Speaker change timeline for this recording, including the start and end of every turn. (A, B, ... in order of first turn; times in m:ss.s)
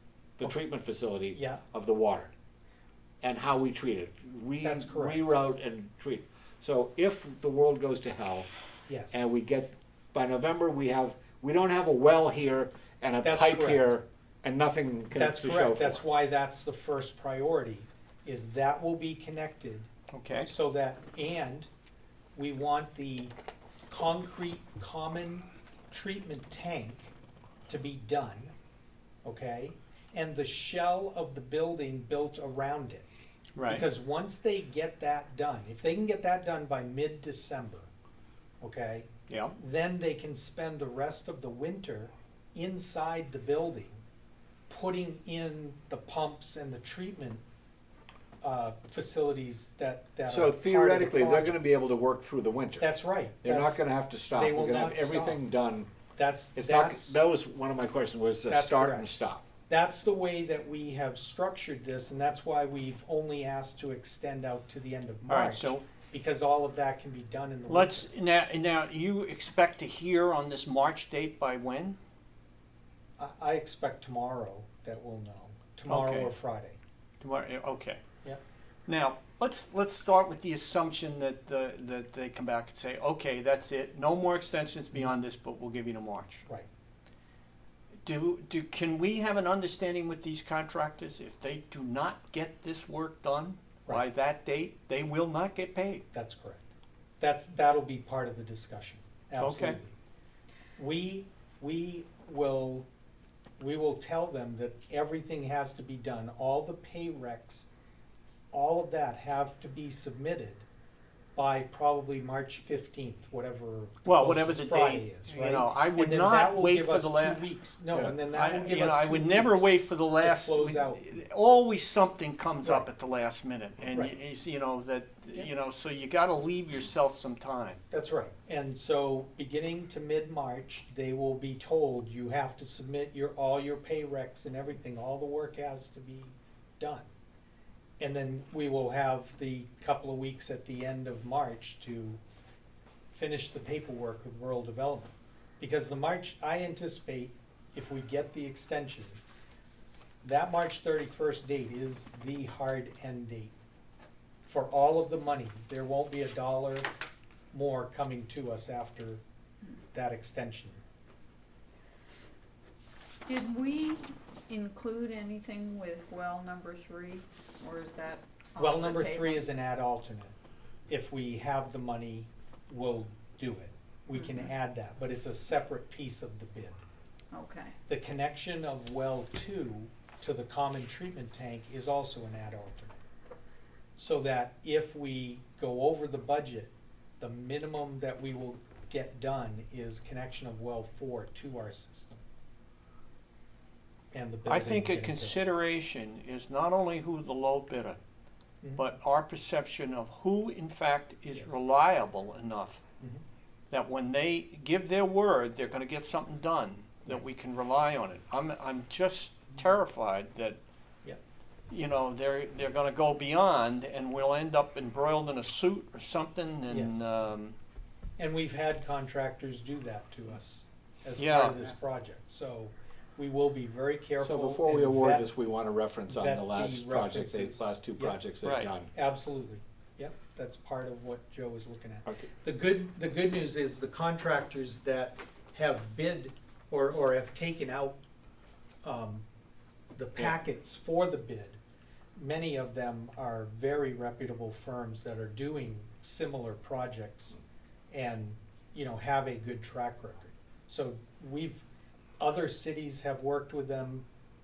0:00.4-0:02.3 A
0:01.3-0:01.6 B
0:03.2-0:08.5 A
0:04.6-0:05.2 B
0:08.9-0:09.2 B
0:09.1-0:16.0 A
0:13.2-0:13.8 B
0:15.2-0:19.9 B
0:20.1-0:20.5 C
0:20.4-0:21.7 B
0:22.4-0:23.3 B
0:23.9-0:27.1 B
0:27.7-0:28.5 B
0:29.2-0:33.1 B
0:33.5-0:33.8 C
0:33.6-0:37.9 B
0:38.6-0:44.0 B
0:39.3-0:39.6 C
0:44.7-0:47.4 B
0:48.4-0:51.5 B
0:50.3-0:52.9 A
0:52.8-0:55.4 B
0:53.4-0:55.9 A
0:56.1-0:57.1 B
0:56.5-0:59.4 A
0:58.5-0:59.1 B
0:59.7-1:08.1 B
1:05.3-1:05.8 C
1:07.7-1:12.0 C
1:13.2-1:16.8 B
1:15.8-1:16.3 C
1:17.2-1:18.0 C
1:18.9-1:26.4 C
1:28.0-1:36.0 C
1:36.1-1:36.6 B
1:37.2-1:39.9 B
1:39.4-1:39.8 C
1:40.8-1:42.9 B
1:43.6-1:47.7 B
1:48.5-1:50.6 B
1:51.4-2:01.2 B
1:54.0-1:57.5 C
1:58.2-2:07.8 C
2:02.6-2:02.9 B
2:03.9-2:04.2 B
2:07.9-2:17.1 B
2:18.0-2:22.2 B
2:23.1-2:29.2 B
2:30.2-2:33.5 B
2:34.4-2:36.9 B
2:37.5-2:39.2 B
2:39.9-2:40.8 B
2:43.2-2:49.5 D
2:48.6-2:50.3 B
2:50.9-2:56.8 B
2:54.1-2:54.5 D
2:57.3-2:57.8 D
2:57.9-3:03.0 B
3:04.0-3:12.2 B
3:14.1-3:15.4 B
3:14.4-3:18.0 C
3:18.8-3:22.8 C
3:23.7-3:30.6 C
3:31.7-3:37.6 C
3:36.7-3:37.0 B
3:38.2-3:45.3 B
3:41.1-3:41.7 C
3:44.2-3:48.9 A
3:46.1-3:48.2 B
3:48.4-3:48.7 C
3:48.9-3:58.0 B
3:58.8-3:59.2 B
3:59.9-4:01.6 B
4:02.2-4:07.4 B
4:07.9-4:11.6 B
4:12.2-4:14.0 B